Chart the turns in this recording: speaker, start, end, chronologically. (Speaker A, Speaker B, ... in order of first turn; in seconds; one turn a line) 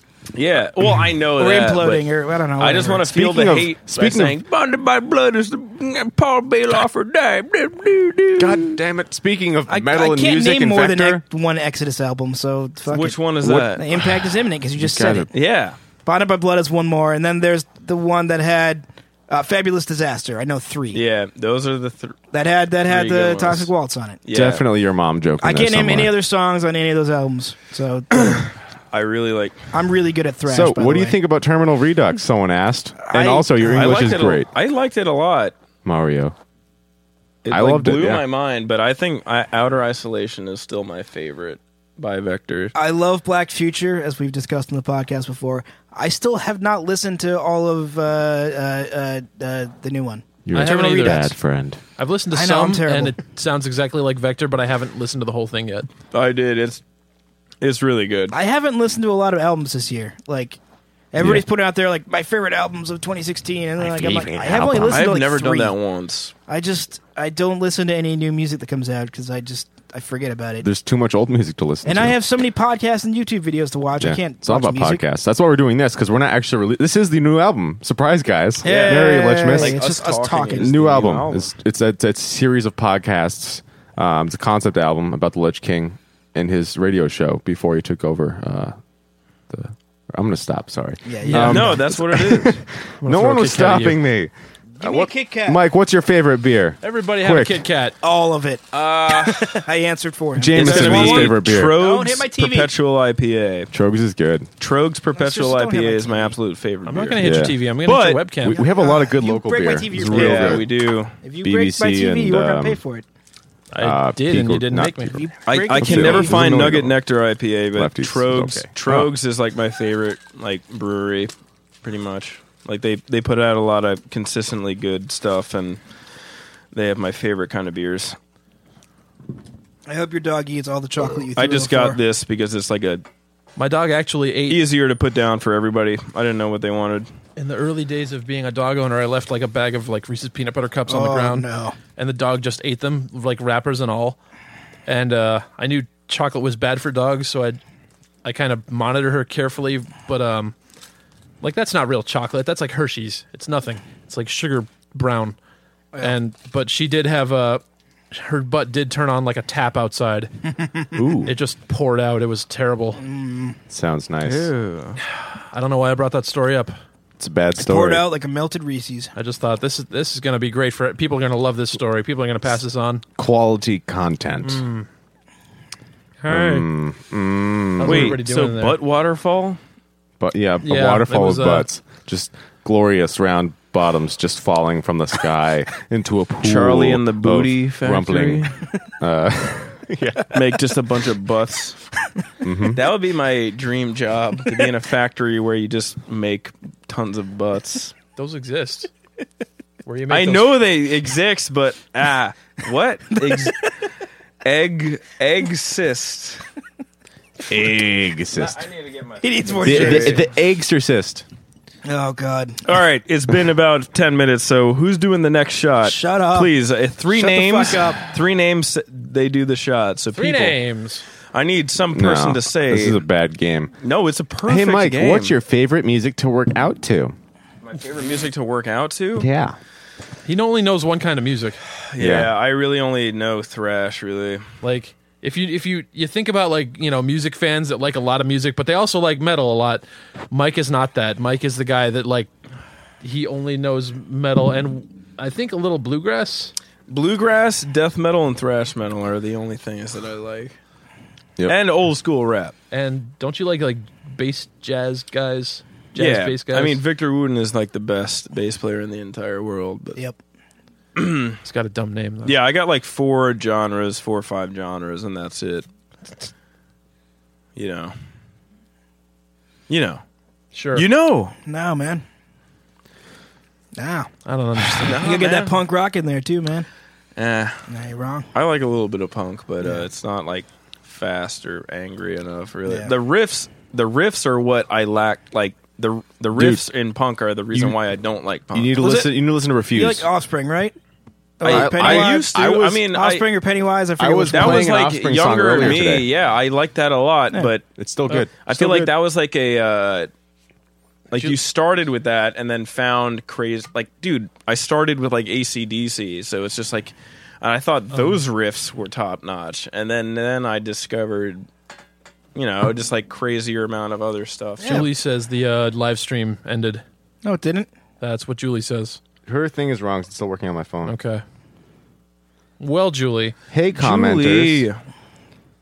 Speaker A: 0.3-8.8
Speaker B: 1.4-3.1
Speaker C: 3.1-4.4
Speaker C: 8.4-11.2
Speaker B: 9.7-15.3
Speaker A: 12.9-13.8
Speaker C: 13.4-15.3
Speaker A: 15.3-15.8
Speaker B: 16.1-21.0
Speaker A: 20.9-22.2
Speaker B: 22.3-24.2
Speaker A: 22.9-23.7
Speaker A: 24.2-24.7
Speaker C: 24.3-26.1
Speaker B: 25.4-28.5
Speaker A: 28.2-29.7
Speaker B: 29.7-31.2
Speaker C: 30.5-34.5
Speaker B: 33.1-34.2
Speaker A: 33.6-35.5
Speaker C: 35.9-36.3
Speaker A: 37.4-42.8
Speaker C: 37.5-38.2
Speaker B: 42.8-51.3
Speaker C: 50.5-51.8
Speaker D: 50.5-51.3
Speaker D: 52.0-55.9
Speaker B: 52.3-53.2
Speaker A: 56.1-56.8
Speaker A: 57.6-58.4
Speaker B: 58.3-60.6
Speaker B: 61.1-65.8
Speaker C: 61.2-61.5
Speaker C: 63.8-65.1
Speaker A: 64.9-66.3
Speaker B: 66.5-70.7
Speaker C: 70.6-72.2
Speaker B: 71.8-75.0
Speaker C: 74.0-79.8
Speaker B: 78.6-80.7
Speaker A: 78.6-81.5
Speaker C: 80.6-88.8
Speaker C: 89.5-97.6
Speaker B: 91.1-91.8
Speaker D: 91.2-91.8
Speaker A: 91.4-92.6
Speaker D: 93.0-94.0
Speaker B: 94.8-95.6
Speaker D: 96.8-98.0
Speaker B: 98.0-102.7
Speaker A: 98.7-99.6
Speaker C: 100.4-101.8
Speaker A: 100.5-103.7
Speaker C: 103.7-104.5
Speaker A: 104.6-107.3
Speaker B: 105.1-106.4
Speaker D: 106.8-108.6
Speaker C: 107.2-107.6
Speaker A: 107.8-108.3
Speaker C: 108.4-110.7
Speaker B: 108.5-110.7
Speaker A: 110.0-111.2
Speaker B: 111.2-113.0
Speaker C: 111.4-112.8
Speaker D: 113.7-115.3
Speaker C: 113.8-117.0
Speaker B: 115.2-116.7
Speaker A: 115.5-125.8
Speaker C: 117.8-119.1
Speaker A: 126.7-128.2
Speaker B: 129.9-132.0
Speaker A: 131.4-133.0
Speaker D: 133.6-134.7
Speaker A: 134.5-137.1
Speaker D: 137.4-141.5
Speaker B: 140.9-141.8
Speaker D: 142.0-144.2
Speaker D: 144.9-147.6
Speaker D: 148.2-150.6
Speaker D: 151.4-155.4
Speaker D: 156.0-160.3
Speaker B: 160.6-160.9
Speaker C: 160.9-161.3
Speaker D: 161.3-163.0
Speaker B: 163.0-163.6
Speaker C: 163.7-164.5
Speaker A: 164.2-165.0
Speaker D: 165.5-166.8
Speaker C: 167.2-168.1
Speaker B: 167.6-169.1
Speaker D: 169.2-173.0
Speaker C: 173.2-174.6
Speaker D: 174.4-174.9
Speaker D: 176.2-176.7
Speaker C: 176.3-178.2
Speaker D: 177.8-178.8
Speaker A: 177.8-179.6
Speaker C: 180.2-190.6
Speaker D: 180.6-181.7
Speaker A: 186.4-188.6
Speaker A: 190.3-191.8
Speaker C: 192.4-192.9
Speaker A: 192.7-197.9
Speaker D: 198.2-198.9
Speaker D: 199.9-200.6
Speaker A: 200.1-203.6
Speaker B: 203.2-203.5
Speaker A: 204.4-206.4
Speaker C: 207.5-208.7
Speaker A: 208.3-210.3
Speaker B: 209.2-210.2
Speaker C: 209.7-211.2
Speaker B: 211.8-212.6
Speaker A: 212.6-220.6
Speaker B: 215.8-216.5
Speaker B: 217.1-218.1
Speaker D: 220.1-221.0
Speaker A: 221.3-223.0
Speaker C: 221.9-223.8
Speaker A: 223.8-225.3
Speaker C: 224.5-227.2
Speaker A: 227.6-229.3
Speaker C: 229.2-229.6
Speaker D: 230.3-231.6
Speaker A: 231.9-234.5
Speaker C: 232.0-232.3
Speaker D: 234.6-242.3
Speaker D: 243.0-246.5
Speaker A: 246.9-250.6
Speaker A: 251.4-252.6
Speaker D: 252.7-256.8
Speaker A: 256.0-260.0
Speaker A: 261.0-261.4
Speaker D: 261.4-262.4
Speaker A: 262.2-265.6
Speaker A: 267.6-267.9
Speaker A: 269.7-270.0
Speaker D: 270.5-270.9
Speaker A: 270.7-271.4
Speaker B: 271.4-272.0
Speaker B: 273.8-274.1
Speaker D: 274.3-275.0
Speaker B: 274.6-276.7
Speaker A: 274.8-275.6
Speaker A: 277.2-277.7
Speaker B: 277.7-278.3
Speaker A: 278.3-288.8
Speaker B: 279.6-279.9
Speaker B: 282.7-282.9
Speaker C: 286.4-286.7
Speaker C: 288.5-290.1
Speaker B: 288.8-289.1
Speaker B: 289.7-290.8
Speaker B: 291.4-294.8
Speaker A: 291.4-293.3
Speaker C: 291.4-292.8
Speaker C: 294.0-296.1
Speaker A: 294.3-297.6
Speaker C: 297.8-298.9
Speaker A: 298.2-300.1
Speaker A: 301.1-311.5
Speaker D: 307.9-308.2
Speaker A: 312.4-314.9
Speaker D: 314.6-316.8
Speaker B: 317.2-317.7
Speaker D: 318.0-319.0
Speaker C: 319.3-320.9
Speaker D: 320.9-321.2
Speaker D: 322.6-323.4
Speaker C: 323.5-324.7
Speaker A: 323.8-324.8